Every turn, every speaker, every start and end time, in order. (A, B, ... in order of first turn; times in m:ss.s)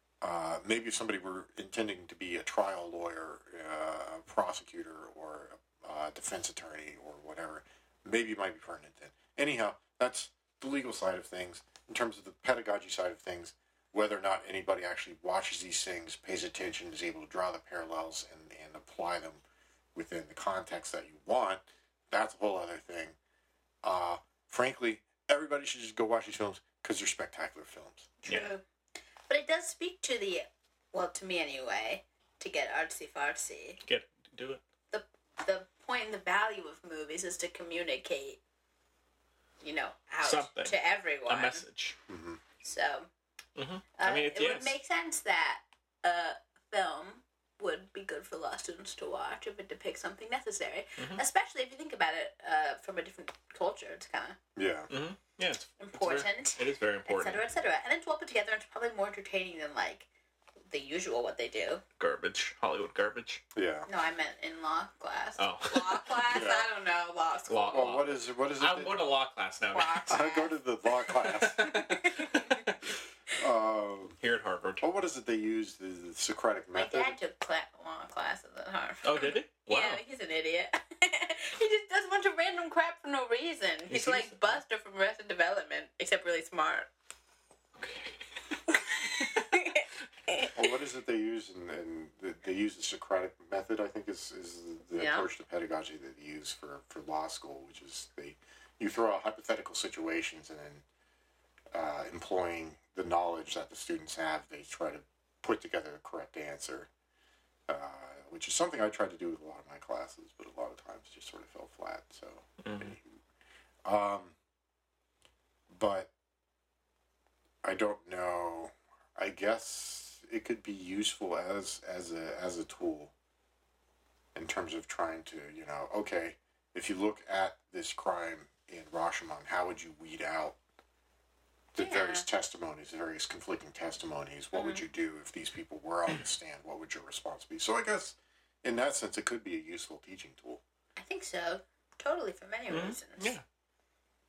0:00.2-0:19.4 A
0:20.0-0:23.2 A
0:23.8-0:28.2 A
0:28.2-0:28.6 B
0:28.3-0:28.5 C
0:29.3-0:33.8 B
0:33.8-0:34.6 C
0:34.9-0:38.4 B
0:39.6-0:41.6 B
0:40.2-0:42.0 C
0:42.1-0:42.4 A
0:42.6-0:43.1 B
0:43.6-0:44.8 C
0:44.0-0:54.4 B
0:51.0-0:51.2 C
0:54.6-0:54.9 A
0:54.9-0:57.4 C
0:55.8-1:00.1 B
1:00.7-1:01.8 B
1:02.0-1:03.4 C
1:03.6-1:03.9 A
1:03.9-1:07.9 B
1:05.4-1:06.2 C
1:06.3-1:06.7 A
1:07.5-1:10.2 C
1:07.7-1:09.1 A
1:09.7-1:10.6 B
1:10.1-1:11.8 A
1:11.2-1:12.8 C
1:11.6-1:12.6 B
1:13.3-1:14.2 A
1:14.2-1:14.8 C
1:14.8-1:17.2 A
1:16.7-1:26.9 B
1:19.0-1:20.0 C
1:23.9-1:24.6 C
1:27.8-1:28.2 C
1:28.8-1:30.5 B
1:29.1-1:29.4 C
1:30.6-1:40.8 A
1:35.0-1:35.3 B
1:41.7-1:46.9 A
1:47.7-1:53.1 A
1:52.6-1:52.9 C
1:53.8-1:54.4 A
1:55.7-1:56.1 A
1:57.6-2:03.1 A
2:04.4-2:10.6 A
2:11.7-2:20.6 A
2:11.8-2:12.3 B
2:14.5-2:14.8 B
2:21.0-2:23.4 B
2:22.7-2:23.4 C